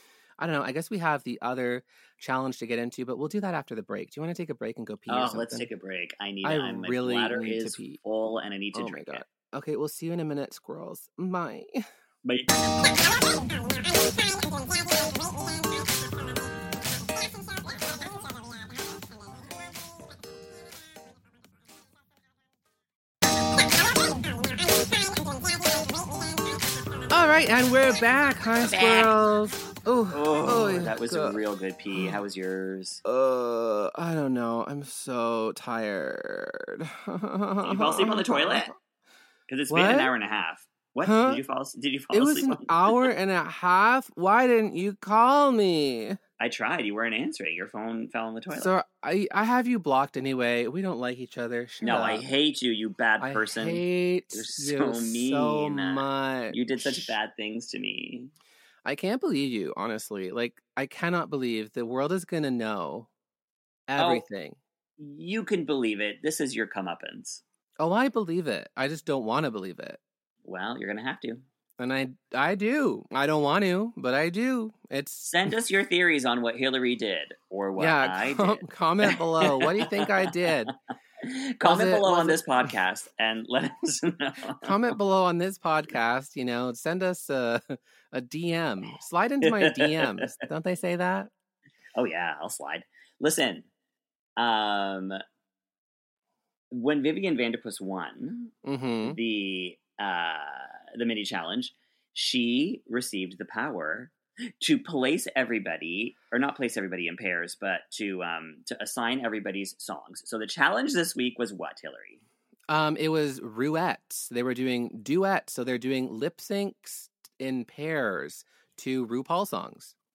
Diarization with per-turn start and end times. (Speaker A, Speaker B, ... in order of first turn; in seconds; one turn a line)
Speaker A: 0.4-5.7
Speaker B: 5.1-9.2
Speaker A: 6.4-8.0
Speaker A: 8.7-11.9
Speaker B: 12.2-12.5
Speaker A: 27.1-31.4
Speaker B: 28.6-29.1
Speaker B: 30.1-33.0
Speaker A: 33.0-38.8
Speaker B: 37.6-38.7
Speaker B: 39.5-43.1
Speaker A: 39.7-40.1
Speaker A: 41.0-41.4
Speaker A: 42.1-46.2
Speaker B: 46.4-48.7
Speaker A: 48.5-52.3
Speaker B: 51.8-58.3
Speaker A: 53.2-57.1
Speaker A: 58.9-63.1
Speaker A: 63.9-64.6
Speaker B: 64.0-64.2
Speaker B: 65.0-67.4
Speaker A: 67.8-70.0
Speaker B: 70.5-71.4
Speaker A: 71.8-75.3
Speaker B: 75.2-80.5
Speaker A: 77.8-80.7
Speaker B: 81.2-84.7
Speaker A: 81.6-82.7
Speaker A: 84.6-91.3
Speaker B: 89.4-90.3
Speaker B: 92.0-93.7
Speaker B: 94.4-95.2
Speaker B: 96.7-98.5
Speaker A: 98.6-99.2
Speaker B: 99.0-112.2
Speaker A: 112.7-119.9